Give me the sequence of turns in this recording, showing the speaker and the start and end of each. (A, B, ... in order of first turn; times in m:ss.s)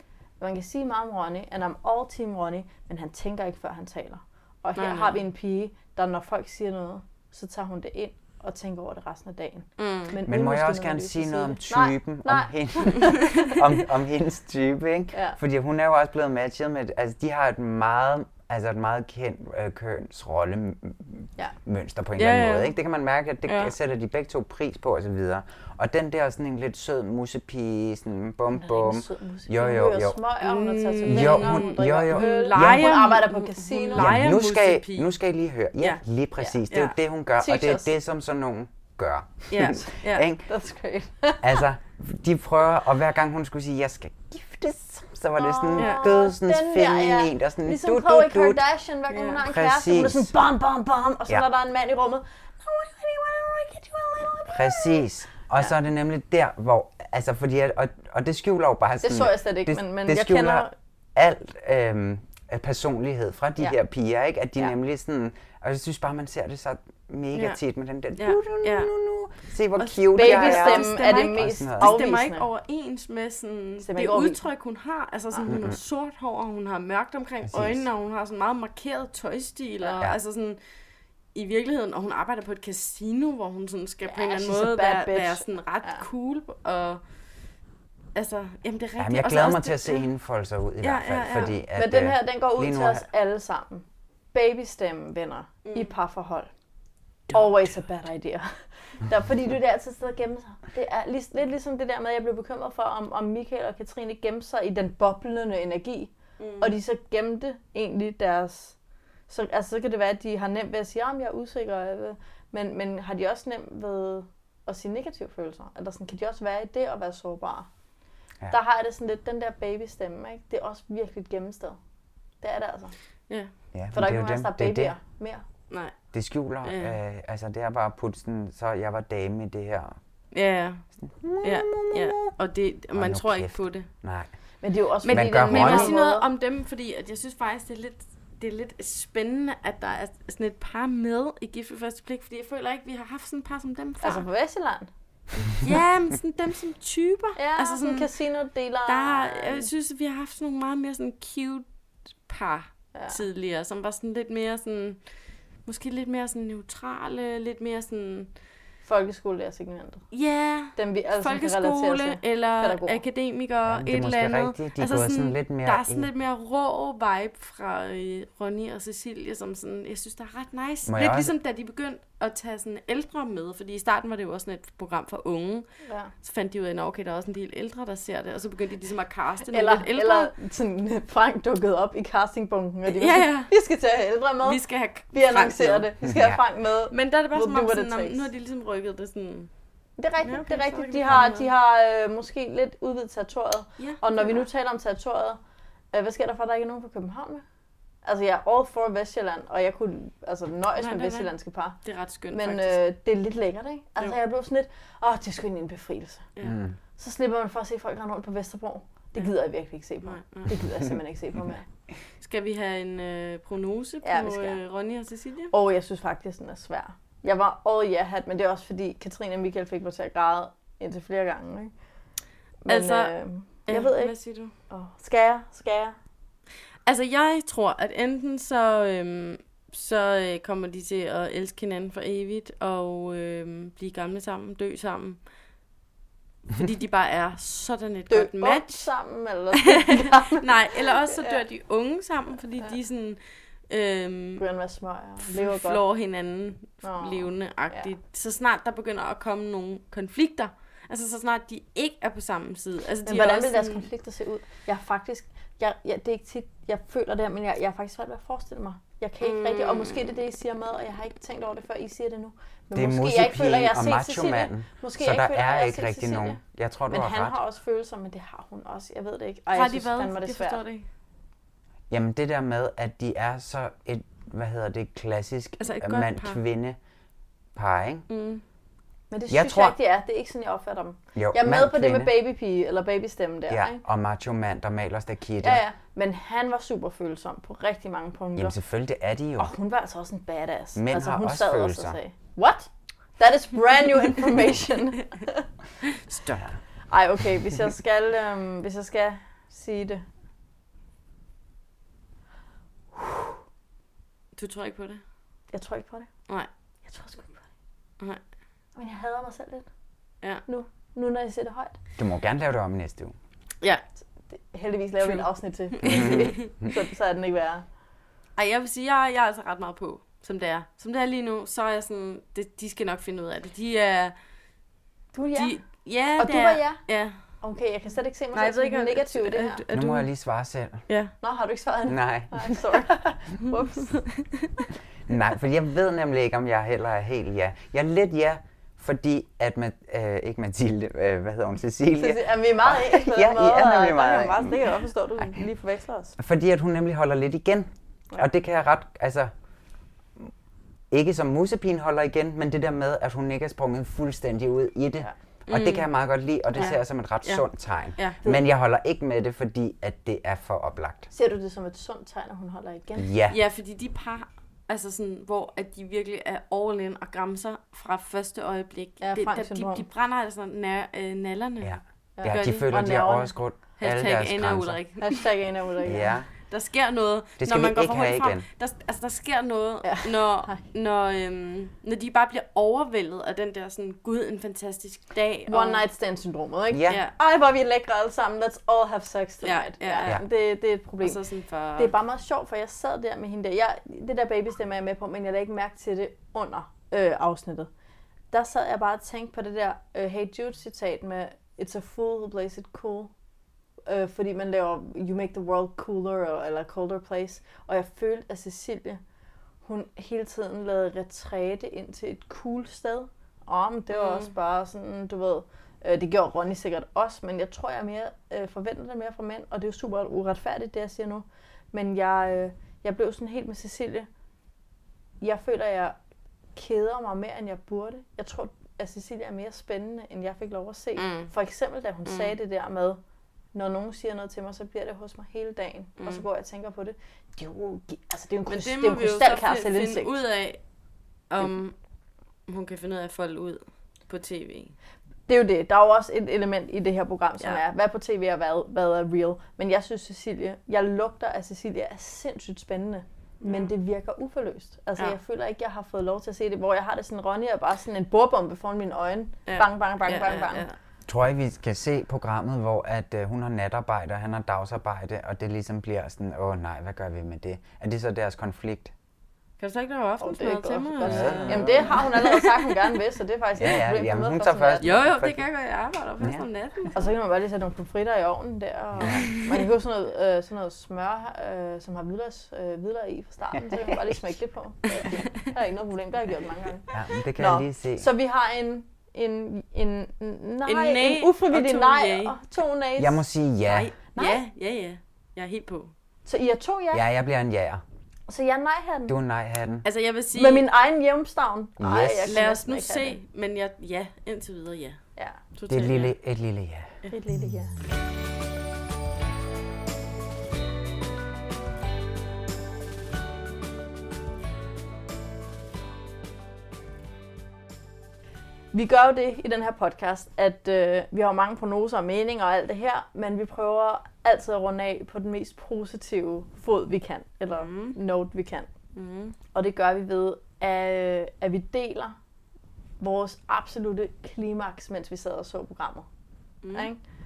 0:00.4-0:13.6 A
0:04.8-0:05.2 B
0:09.8-0:10.2 B
0:10.3-0:30.2 C
0:15.1-0:15.4 A
0:22.2-0:22.7 B
0:23.5-0:23.7 B
0:28.5-0:34.1 A
0:30.4-0:35.1 B
0:31.0-0:33.1 C
0:34.0-0:40.5 C
0:36.7-0:37.0 B
0:37.4-0:37.9 A
0:39.5-0:40.3 B
0:40.5-0:41.6 A
0:41.4-0:48.6 C
0:45.4-0:55.1 A
0:45.8-0:46.1 B
0:49.1-0:49.4 B
0:49.4-0:50.3 C
0:54.5-1:12.0 C
0:59.0-1:00.7 A
1:07.3-1:07.6 B
1:08.2-1:08.9 B
1:09.8-1:20.6 B
1:10.2-1:12.5 A
1:13.8-1:14.4 A
1:15.5-1:15.8 C
1:17.5-1:17.8 C
1:21.3-1:27.0 B
1:24.1-1:26.0 A
1:28.2-1:30.0 B
1:29.0-1:33.1 C
1:30.8-1:31.6 B
1:31.8-1:36.5 A
1:35.6-1:35.9 B
1:37.3-1:48.8 A
1:46.4-1:46.8 B
1:49.3-1:57.7 A
1:58.5-2:01.8 A
2:02.4-2:02.9 A
2:03.7-2:05.0 C
2:03.9-2:05.4 A
2:05.7-2:06.0 B
2:06.1-2:10.0 C
2:06.6-2:07.0 B
2:10.3-2:10.8 B
2:11.0-2:12.3 C
2:11.4-2:13.9 B
2:12.9-2:14.3 C
2:14.6-2:16.3 A
2:15.0-2:24.2 B
2:15.1-2:16.0 C
2:24.0-2:24.9 A
2:25.6-2:28.1 B
2:27.4-2:29.7 A
2:28.9-2:31.7 B
2:32.2-2:35.0 B
2:32.9-2:33.2 A
2:35.6-2:38.3 B
2:38.8-2:40.1 A
2:40.1-2:55.7 B
2:40.7-2:43.0 A
2:43.7-2:46.1 C
2:50.9-2:51.3 C
2:55.8-2:56.1 A
2:56.2-3:00.3 B
2:59.5-3:08.2 A
3:02.9-3:03.5 B
3:04.4-3:05.9 B
3:06.0-3:06.4 C
3:06.9-3:09.5 B
3:10.0-3:15.4 A
3:10.2-3:11.5 B
3:13.8-3:14.5 B
3:15.9-3:17.4 A
3:18.0-3:21.8 A
3:20.8-3:21.3 B
3:21.8-3:22.8 B
3:22.3-3:26.3 A
3:26.4-3:26.8 C
3:27.0-3:31.7 A
3:30.0-3:30.6 B
3:32.2-3:35.5 B
3:34.0-3:34.6 A
3:35.5-3:41.7 A
3:42.6-3:44.2 A
3:42.7-3:43.1 B
3:43.7-3:44.5 B
3:44.7-3:46.0 A
3:46.9-3:55.2 B
3:56.5-3:58.8 B
3:58.1-4:00.5 A
4:00.2-4:04.4 B
4:01.0-4:01.4 A
4:04.4-4:05.8 A
4:05.2-4:13.9 B
4:06.8-4:07.9 A
4:13.1-4:30.6 A
4:19.2-4:20.1 B
4:22.8-4:27.4 C
4:29.5-4:30.9 B
4:31.9-4:36.8 C
4:35.6-4:36.4 B
4:37.6-4:38.1 C
4:38.1-4:38.4 B
4:39.1-4:43.8 A
4:39.3-4:39.8 C
4:41.2-4:42.1 C
4:43.5-4:45.6 C
4:45.4-4:48.6 A
4:48.4-4:49.5 C
4:49.4-4:55.5 A
4:50.8-4:52.0 C
4:56.1-4:56.5 B
4:56.3-4:56.6 C
4:56.9-5:00.0 A
5:04.4-5:05.0 B
5:05.5-5:06.1 A
5:06.9-5:07.4 A
5:08.8-5:09.7 A
5:10.5-5:11.8 A
5:12.0-5:13.2 C
5:14.3-5:17.6 A
5:15.0-5:16.4 B
5:15.8-5:16.3 C
5:18.4-5:24.2 B
5:25.1-5:25.6 A
5:25.4-5:27.2 B
5:26.2-5:29.6 A
5:28.3-5:30.1 B
5:29.7-5:30.9 C
5:30.9-5:31.1 B
5:31.2-5:34.1 A
5:31.9-5:33.1 C
5:33.9-5:34.5 B
5:35.1-5:44.6 C
5:42.0-5:46.2 A
5:46.2-5:49.3 C
5:50.9-6:01.1 C
5:55.5-5:55.9 B
5:56.6-5:58.2 B
6:01.1-6:03.1 A
6:03.0-6:03.4 C
6:03.3-6:11.7 B
6:09.0-6:09.9 A
6:11.6-6:14.8 C
6:12.2-6:13.3 A
6:12.3-6:12.7 B
6:13.8-6:15.2 B
6:15.0-6:16.2 A
6:15.8-6:16.3 C
6:16.5-6:25.8 B
6:17.4-6:18.5 C
6:19.8-6:20.6 A
6:25.5-6:31.2 A
6:26.7-6:27.0 C
6:26.9-6:27.1 B
6:29.4-6:30.2 B
6:31.0-6:31.9 B
6:31.8-6:37.7 A
6:38.3-6:43.1 A
6:43.9-6:49.0 A
6:49.6-7:04.1 A
6:53.9-6:54.3 B
7:05.2-7:06.0 A
7:06.6-7:13.0 A
7:11.0-7:11.3 B
7:12.1-7:12.3 B
7:13.5-7:20.2 A
7:18.5-7:20.6 B
7:21.3-7:21.8 B
7:22.5-7:24.8 B
7:25.3-7:40.7 A
7:33.4-7:33.7 B
7:39.5-7:40.8 B
7:41.1-7:48.9 C
7:49.6-7:52.8 B
7:50.2-7:55.0 A
7:51.0-7:52.1 C
7:53.6-7:55.4 C
7:54.8-7:57.1 B
7:57.0-8:13.2 A
7:59.0-7:59.3 C
8:06.9-8:08.1 C
8:10.6-8:12.4 B
8:13.0-8:13.9 C
8:13.7-8:15.9 B
8:14.1-8:14.4 A
8:16.2-8:17.0 A
8:16.9-8:17.8 C
8:18.3-8:19.2 A
8:19.1-8:19.8 C
8:19.8-8:20.6 B
8:20.3-8:23.2 A
8:21.8-8:22.4 C
8:22.3-8:25.0 B
8:25.5-8:26.1 B
8:25.7-8:27.0 C
8:27.1-8:27.8 A
8:38.7-8:48.7 A
8:47.5-8:48.0 B
8:49.0-8:49.4 B
8:49.5-8:52.2 A
8:53.0-8:56.1 A
8:56.6-8:56.9 B
8:56.7-8:57.0 A